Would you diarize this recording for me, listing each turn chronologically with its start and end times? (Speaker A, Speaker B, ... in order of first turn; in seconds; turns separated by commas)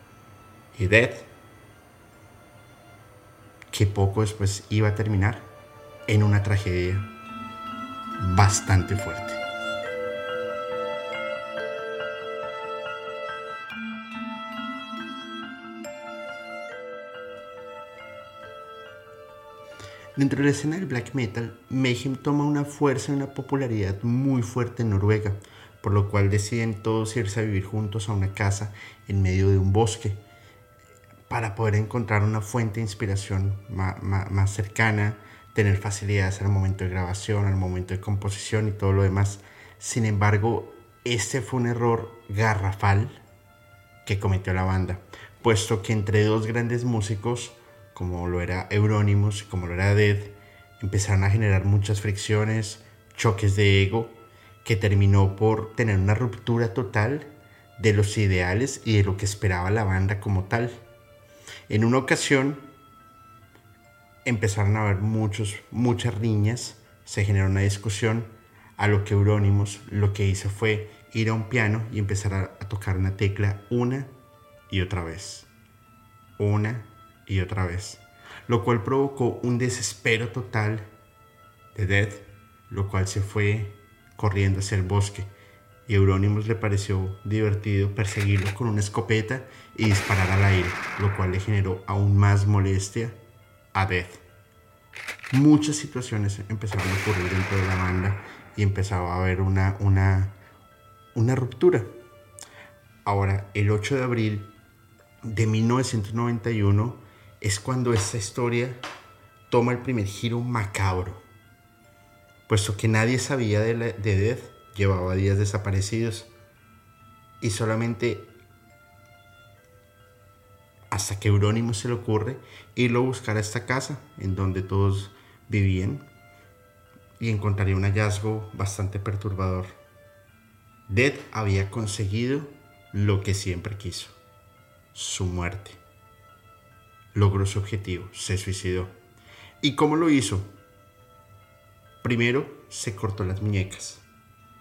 Speaker A: 0.7-1.3, Speaker A: 3.7-5.5, Speaker A: 6.1-7.1, Speaker A: 8.2-9.4, Speaker A: 20.1-30.2, Speaker A: 31.3-43.2, Speaker A: 44.0-60.8, Speaker A: 61.7-62.6, Speaker A: 64.2-74.1, Speaker A: 74.7-75.5, Speaker A: 76.4-80.8, Speaker A: 81.7-85.3, Speaker A: 85.9-93.2, Speaker A: 93.7-94.2, Speaker A: 95.3-100.3, Speaker A: 101.1-101.9, Speaker A: 103.0-104.5, Speaker A: 105.2-108.8, Speaker A: 109.5-111.2, Speaker A: 112.5-116.3, Speaker A: 117.4-118.3, Speaker A: 120.9-126.1, Speaker A: 127.2-129.8, Speaker A: 130.9-134.2, Speaker A: 134.9-135.8, Speaker A: 137.1-138.9, Speaker A: 139.6-140.5, Speaker A: 142.0-144.0